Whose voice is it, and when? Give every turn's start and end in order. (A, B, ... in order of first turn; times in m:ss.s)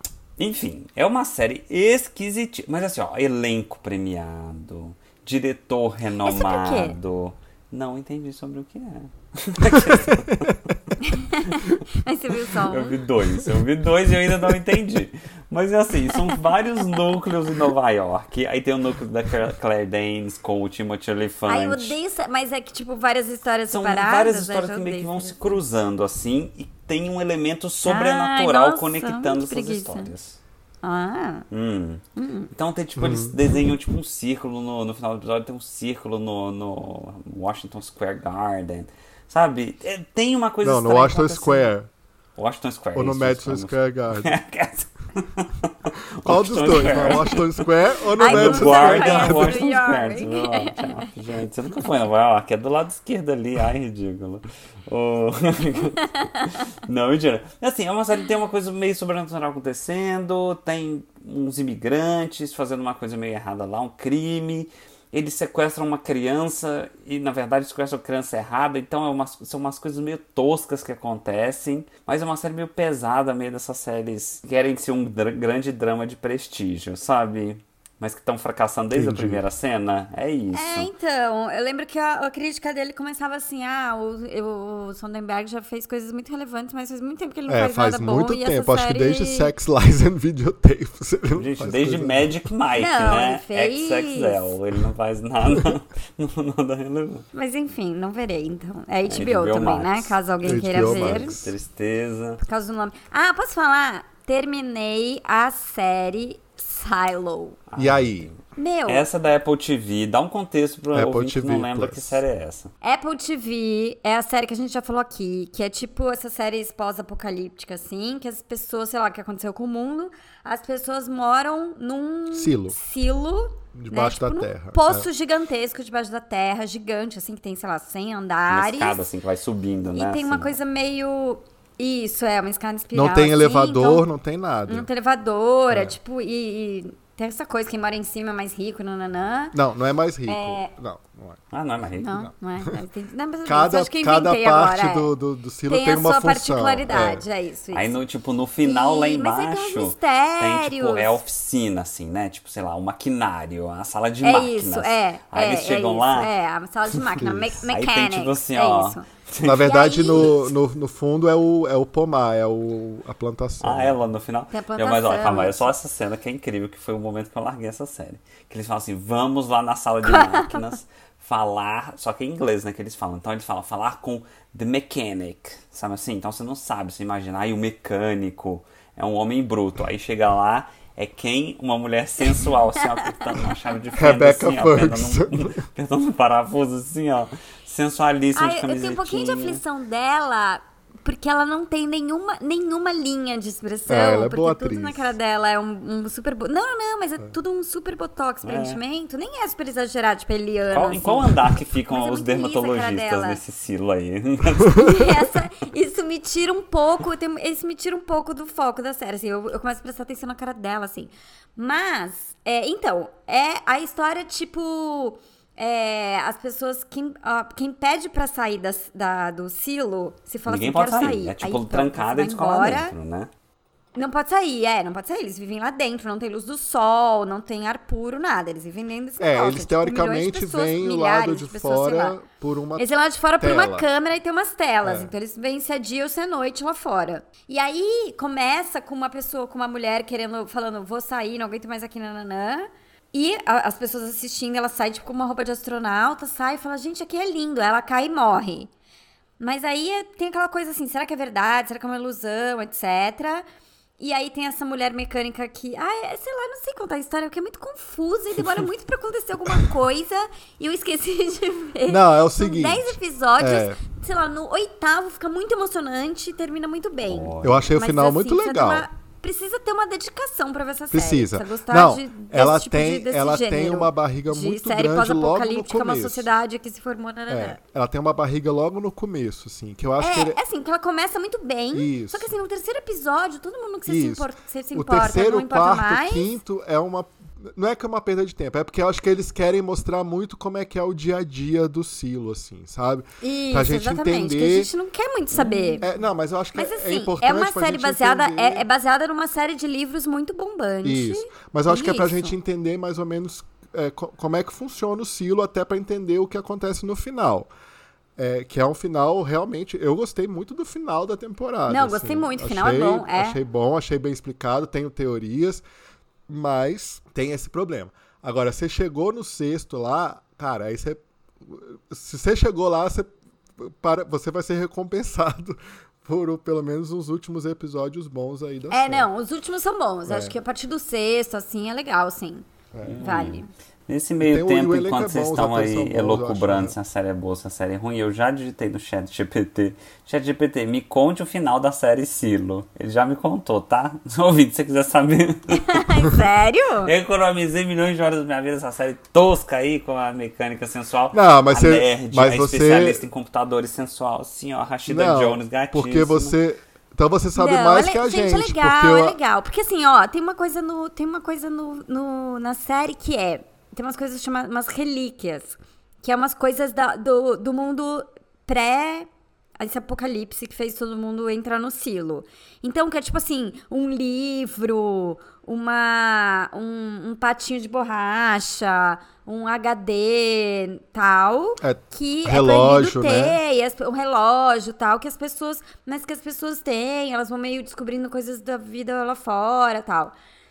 0:00.4-0:10.6 A
0:06.2-0:06.9 B
0:09.7-0:10.7 C
0:11.0-0:13.0 B
0:11.5-0:11.8 A
0:12.7-0:22.0 A
0:16.1-0:16.4 B
0:21.5-0:25.6 B
0:23.7-0:30.4 A
0:27.8-0:30.1 B
0:30.8-0:31.5 B
0:31.5-0:41.7 A
0:32.2-0:32.5 B
0:33.0-0:33.4 C
0:40.6-0:41.9 C
0:42.4-1:20.9 A
0:42.9-0:44.3 C
0:46.2-0:49.7 C
0:48.2-0:51.1 B
0:56.0-0:56.4 B
1:18.9-1:19.4 C
1:20.5-1:29.5 B
1:27.5-1:32.4 C
1:31.3-1:37.2 A
1:32.7-1:34.5 B
1:37.3-1:41.4 B
1:39.1-1:42.4 A
1:40.4-1:41.5 C
1:42.4-1:47.6 B
1:47.7-1:52.7 A
1:47.8-1:48.3 C
1:48.6-1:49.1 B
1:50.9-1:52.2 C
1:52.8-2:09.0 B
2:02.3-2:02.8 C
2:03.7-2:05.1 C
2:08.5-2:10.6 A
2:09.9-2:14.0 B
2:12.9-2:14.9 C
2:14.7-2:19.6 B
2:15.7-2:16.0 C
2:19.5-2:21.4 C
2:20.3-2:20.7 B
2:21.5-2:22.2 A
2:22.0-2:25.1 B
2:23.4-2:27.2 C
2:25.7-2:28.0 B
2:27.7-2:36.3 A
2:28.6-2:31.2 B
2:34.2-2:40.5 B
2:36.9-2:40.3 A
2:37.2-2:37.6 C
2:39.4-2:44.0 C
2:43.6-3:09.6 A
2:44.5-2:45.7 B
2:50.0-2:50.4 B
3:03.9-3:05.6 C
3:08.3-3:23.4 B
3:13.9-3:15.2 C
3:18.4-3:18.8 A
3:20.7-3:25.3 A
3:24.7-3:42.9 B
3:40.5-3:43.3 A
3:43.9-3:52.2 B
3:49.2-3:52.9 C
3:52.8-4:08.7 B
3:53.4-3:53.9 C
3:54.8-3:55.1 C
4:09.4-4:13.4 B
4:14.0-4:37.6 B
4:21.9-4:23.8 C
4:27.1-4:27.7 A
4:27.4-4:28.8 C
4:30.9-4:36.3 C
4:37.3-4:40.4 C
4:40.0-4:46.4 B
4:41.7-4:42.3 C
4:43.8-4:54.7 C
4:53.2-4:55.9 B
4:55.4-4:58.6 C
4:56.5-5:02.3 B
5:00.8-5:07.5 C
5:08.2-5:15.6 C
5:11.7-5:13.4 B
5:16.3-5:29.1 C
5:28.7-5:32.4 B
5:30.1-5:30.4 C
5:32.7-5:33.0 C
5:32.8-5:46.1 A
5:33.0-5:33.5 B
5:34.2-5:36.8 C
5:45.5-5:46.9 B
5:46.8-5:56.3 A
5:51.1-5:53.0 C
5:54.9-5:59.2 C
5:57.4-6:09.1 B
6:09.6-6:30.1 B
6:21.6-6:23.4 C